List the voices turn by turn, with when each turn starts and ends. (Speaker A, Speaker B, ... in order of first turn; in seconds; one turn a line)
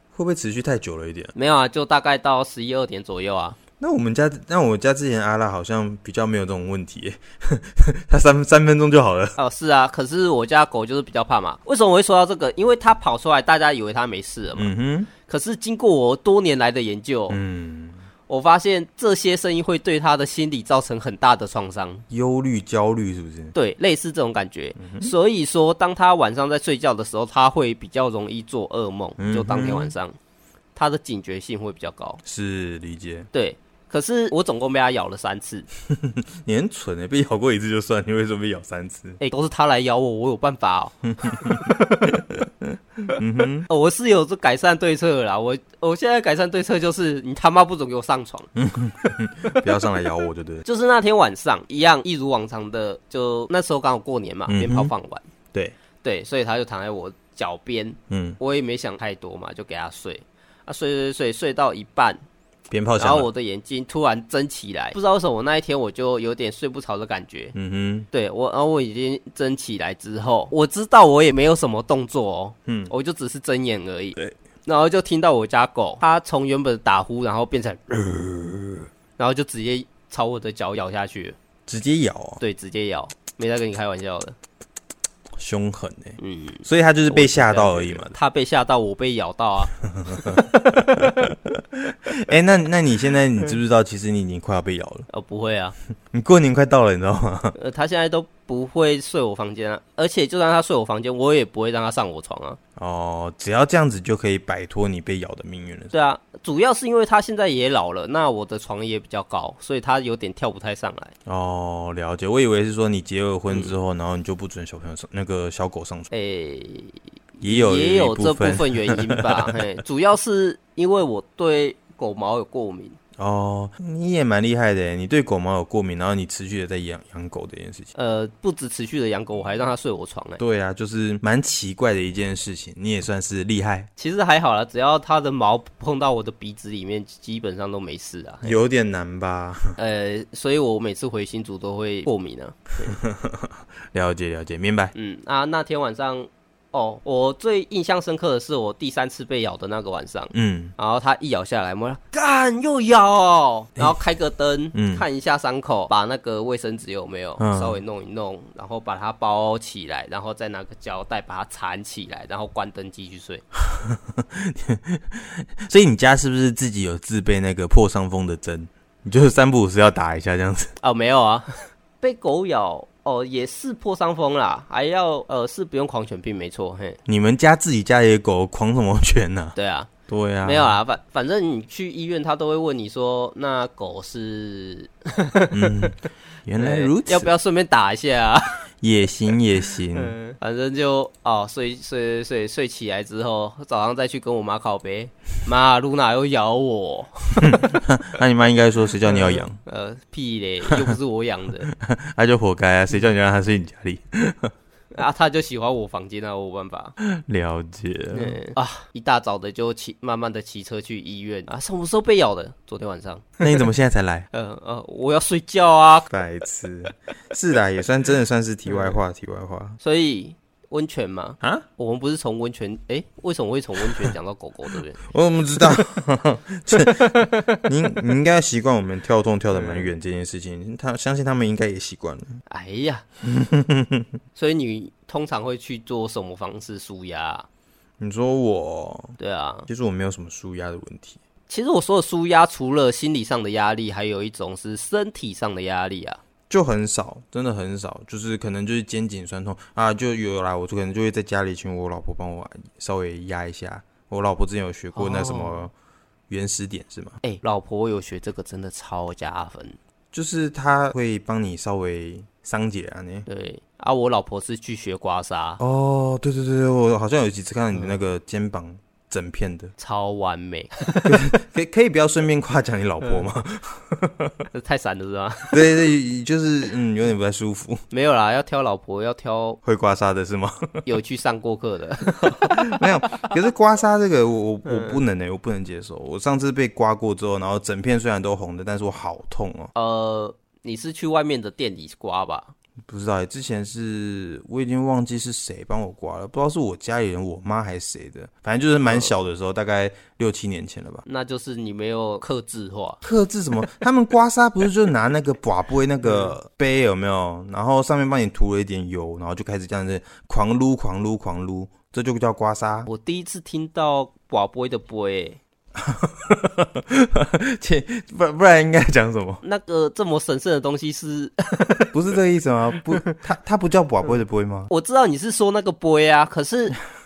Speaker A: 0.1-1.3
Speaker B: 1.3-3.6
Speaker A: 3.8-9.3
Speaker B: 9.3-14.7
Speaker A: 14.6-15.1
Speaker B: 15.2-17.4
Speaker A: 17.3-18.0
Speaker B: 18.3-22.0
Speaker A: 22.1-23.5
Speaker B: 23.5-30.1
Speaker A: 24.8-25.1
Speaker A: 29.2-29.9
Speaker B: 30.8-32.2
Speaker A: 32.2-33.3
Speaker B: 33.3-35.7
Speaker A: 35.9-39.2
Speaker B: 39.2-42.2
Speaker A: 41.2-41.7
Speaker A: 43.1-43.7
Speaker B: 43.7-48.5
Speaker A: 48.5-50.6
Speaker B: 50.6-55.2
Speaker A: 54.5-54.9
Speaker B: 56.0-62.2
Speaker A: 58.1-58.4
Speaker A: 62.7-63.3
Speaker B: 63.0-67.5
Speaker A: 67.5-68.1
Speaker B: 68.1-78.5
Speaker A: 72.7-72.9
Speaker B: 79.2-81.3
Speaker A: 81.7-82.4
Speaker B: 82.4-84.3
Speaker A: 85.4-88.1
Speaker B: 86.2-91.3
Speaker A: 89.9-95.1
Speaker B: 95.1-95.7
Speaker A: 96.1-97.5
Speaker B: 97.5-102.6
Speaker A: 102.8-105.9
Speaker B: 105.9-111.1
Speaker A: 111.2-116.1
Speaker B: 113.5-113.8
Speaker B: 116.1-123.0
Speaker A: 117.4-119.5
Speaker A: 123.2-127.9
Speaker B: 127.9-130.4
Speaker A: 130.4-133.9
Speaker B: 134.0-138.6
Speaker A: 138.4-139.7
Speaker B: 139.8-143.0
Speaker A: 142.8-144.9
Speaker B: 144.9-163.4
Speaker A: 150.3-150.7
Speaker A: 154.7-155.0
Speaker A: 157.4-157.8
Speaker A: 163.6-170.7
Speaker B: 170.8-177.0
Speaker A: 177.1-179.6
Speaker B: 179.6-179.9
Speaker A: 180.1-180.8
Speaker B: 180.4-185.9
Speaker A: 185.5-187.3
Speaker B: 186.6-188.6
Speaker A: 188.8-190.2
Speaker B: 189.9-197.6
Speaker A: 197.4-199.6
Speaker B: 199.0-201.7
Speaker A: 201.7-204.5
Speaker B: 204.9-206.9
Speaker A: 207.0-208.4
Speaker B: 208.1-213.3
Speaker A: 213.4-214.3
Speaker B: 214.3-216.1
Speaker A: 216.1-219.8
Speaker B: 218.7-218.9
Speaker B: 219.8-225.0
Speaker A: 225.0-232.4
Speaker B: 226.8-227.7
Speaker B: 229.5-229.9
Speaker B: 232.5-233.0
Speaker A: 233.2-234.1
Speaker B: 234.3-237.4
Speaker A: 238.0-239.2
Speaker B: 239.2-239.7
Speaker A: 239.7-241.2
Speaker B: 241.5-246.2
Speaker A: 246.5-255.7
Speaker B: 254.9-255.7
Speaker A: 256.3-257.2
Speaker B: 257.2-259.8
Speaker A: 260.1-263.3
Speaker B: 263.3-265.6
Speaker A: 265.6-269.7
Speaker B: 269.8-271.3
Speaker A: 271.1-274.4
Speaker B: 274.5-275.7
Speaker A: 275.5-277.8
Speaker B: 277.9-279.6
Speaker A: 279.6-280.8
Speaker B: 280.8-282.8
Speaker A: 282.3-289.7
Speaker B: 284.6-285.0
Speaker B: 289.7-292.5
Speaker A: 292.9-301.0
Speaker B: 301.0-303.0
Speaker A: 303.0-312.9
Speaker B: 306.0-306.3
Speaker B: 312.9-315.4
Speaker A: 315.8-319.4
Speaker B: 319.4-321.9
Speaker A: 321.9-324.7
Speaker B: 324.7-326.8